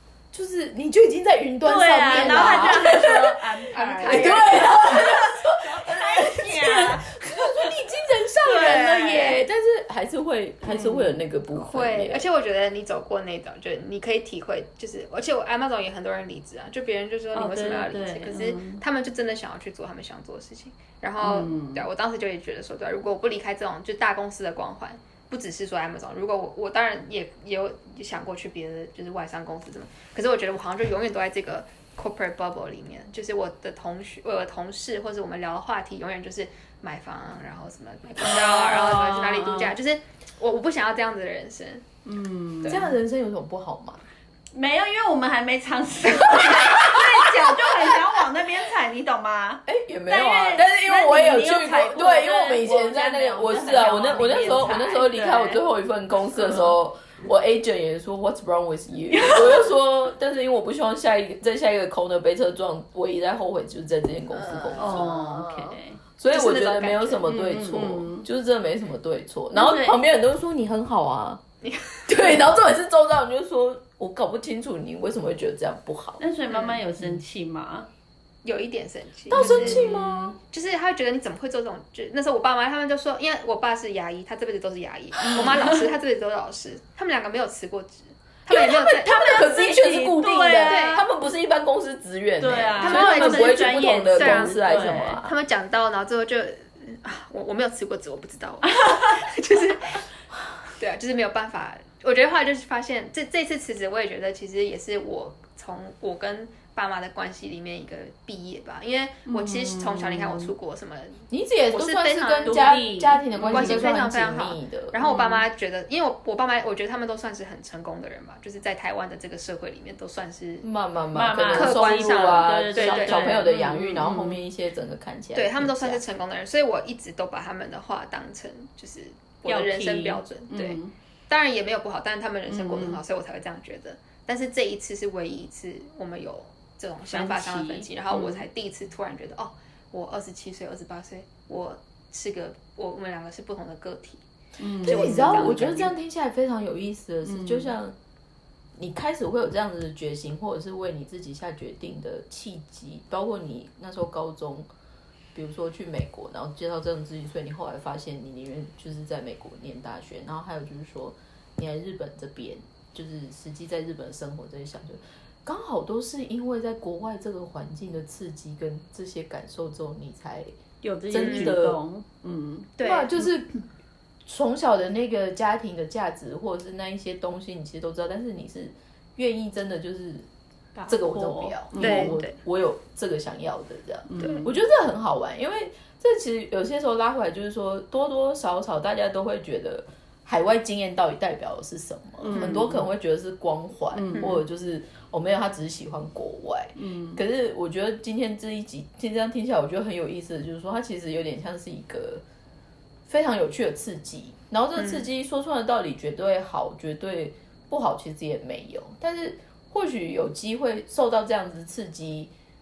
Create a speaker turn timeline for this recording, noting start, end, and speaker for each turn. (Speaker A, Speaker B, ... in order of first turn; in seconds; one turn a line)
Speaker A: 0.3-12.2
Speaker B: 1.6-7.7
Speaker C: 3.7-4.8
Speaker B: 8.4-9.4
Speaker B: 10.7-11.2
Speaker C: 11.6-41.9
Speaker B: 17.3-18.8
Speaker B: 21.2-21.9
Speaker B: 38.2-39.8
Speaker B: 42.0-42.9
Speaker A: 42.7-44.0
Speaker B: 44.5-55.6
Speaker A: 46.2-48.0
Speaker A: 49.7-65.1
Speaker B: 56.4-56.8
Speaker B: 59.1-59.7
Speaker C: 64.3-65.8
Speaker B: 64.8-66.0
Speaker A: 66.2-71.4
Speaker C: 66.3-67.3
Speaker B: 67.3-68.3
Speaker B: 69.5-70.0
Speaker C: 71.6-72.1
Speaker A: 72.1-76.2
Speaker B: 76.2-77.9
Speaker C: 76.5-76.8
Speaker C: 78.4-80.0
Speaker A: 79.3-80.3
Speaker B: 79.3-80.4
Speaker C: 80.5-89.3
Speaker B: 85.2-85.8
Speaker A: 88.5-95.3
Speaker B: 88.5-91.0
Speaker C: 90.6-91.0
Speaker B: 92.4-95.2
Speaker C: 92.8-100.0
Speaker B: 98.7-99.2
Speaker C: 100.8-112.6
Speaker B: 109.3-110.5
Speaker A: 111.3-115.0
Speaker B: 112.5-114.0
Speaker C: 113.5-120.7
Speaker B: 115.0-115.5
Speaker A: 120.6-126.0
Speaker B: 121.1-124.4
Speaker C: 121.5-123.4
Speaker C: 125.3-144.2
Speaker B: 129.5-130.9
Speaker B: 132.5-133.0
Speaker B: 137.1-138.5
Speaker B: 144.6-145.8
Speaker C: 144.8-145.9
Speaker A: 144.8-147.9
Speaker B: 147.2-147.7
Speaker A: 148.8-154.7
Speaker A: 155.3-170.6
Speaker B: 170.8-172.8
Speaker A: 171.1-171.8
Speaker C: 171.2-171.6
Speaker C: 172.8-173.2
Speaker A: 172.8-173.5
Speaker A: 174.2-180.3
Speaker B: 180.8-182.2
Speaker A: 180.9-202.2
Speaker C: 181.8-182.4
Speaker B: 184.1-184.5
Speaker C: 184.2-184.5
Speaker B: 192.2-192.9
Speaker B: 193.9-194.4
Speaker B: 196.8-197.2
Speaker A: 203.1-212.3
Speaker C: 204.8-205.1